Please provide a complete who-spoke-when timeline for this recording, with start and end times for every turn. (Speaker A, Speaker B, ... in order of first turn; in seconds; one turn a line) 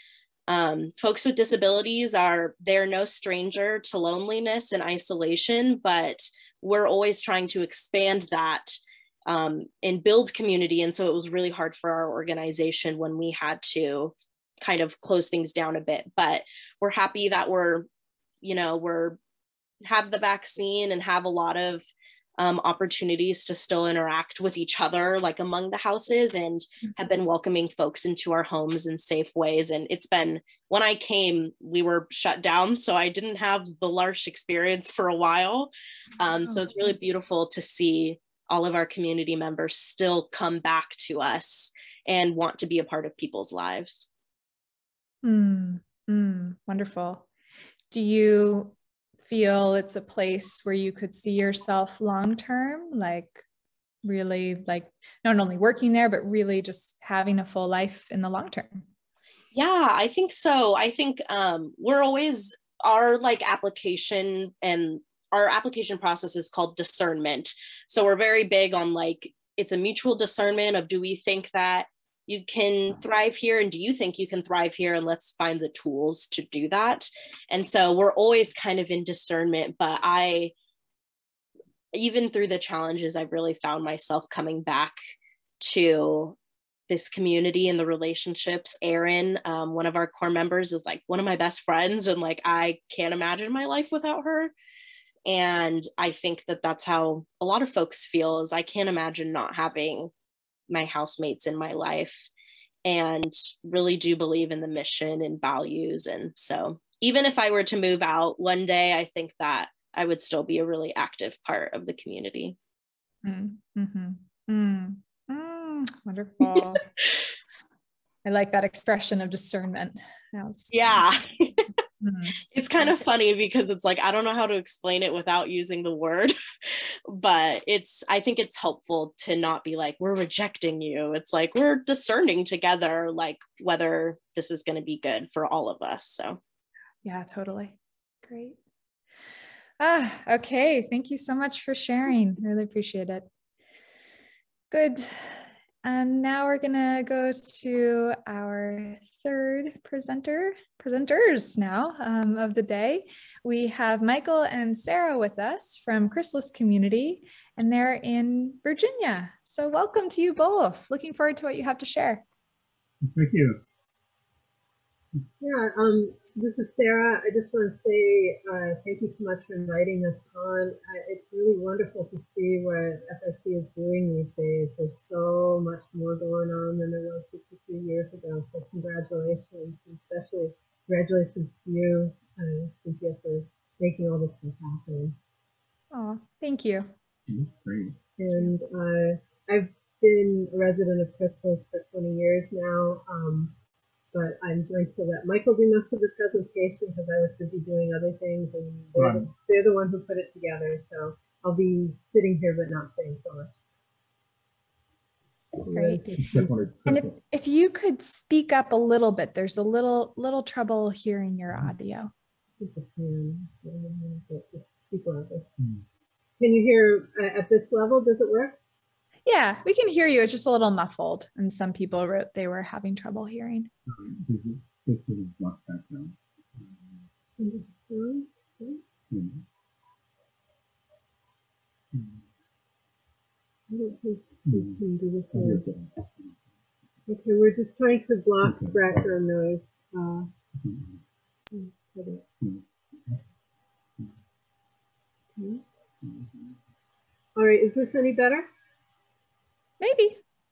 Speaker A: 0.5-17.9
Speaker A: 18.4-19.2
Speaker A: 19.8-21.9
Speaker A: 22.4-44.0
Speaker B: 36.4-36.9
Speaker B: 45.2-47.2
Speaker B: 47.9-53.4
Speaker B: 54.0-58.9
Speaker A: 59.5-80.5
Speaker A: 81.9-85.0
Speaker A: 85.6-86.4
Speaker A: 86.9-94.5
Speaker A: 95.3-100.1
Speaker A: 100.7-102.3
Speaker A: 102.8-112.5
Speaker B: 113.2-116.8
Speaker B: 118.2-121.2
Speaker A: 120.7-121.6
Speaker B: 122.0-122.9
Speaker A: 122.5-136.4
Speaker B: 137.0-138.6
Speaker B: 139.8-143.2
Speaker B: 144.7-162.2
Speaker C: 163.0-163.6
Speaker D: 165.4-185.2
Speaker B: 185.9-186.9
Speaker C: 187.3-188.0
Speaker D: 188.2-193.5
Speaker D: 194.1-203.5
Speaker C: 198.9-199.3
Speaker D: 205.6-206.6
Speaker B: 205.7-206.0
Speaker C: 206.2-207.1
Speaker B: 206.9-212.1
Speaker D: 212.6-215.5
Speaker D: 216.4-218.6
Speaker B: 219.2-223.7
Speaker C: 223.9-227.0
Speaker D: 227.4-228.8
Speaker C: 229.1-229.4
Speaker C: 231.9-232.2
Speaker D: 233.7-235.6
Speaker C: 234.4-236.4
Speaker D: 237.1-240.3
Speaker C: 238.4-238.8
Speaker C: 240.6-241.0
Speaker D: 241.5-242.2
Speaker C: 242.4-243.2
Speaker D: 245.4-245.6
Speaker C: 246.0-246.4
Speaker D: 247.3-248.5
Speaker B: 249.8-250.2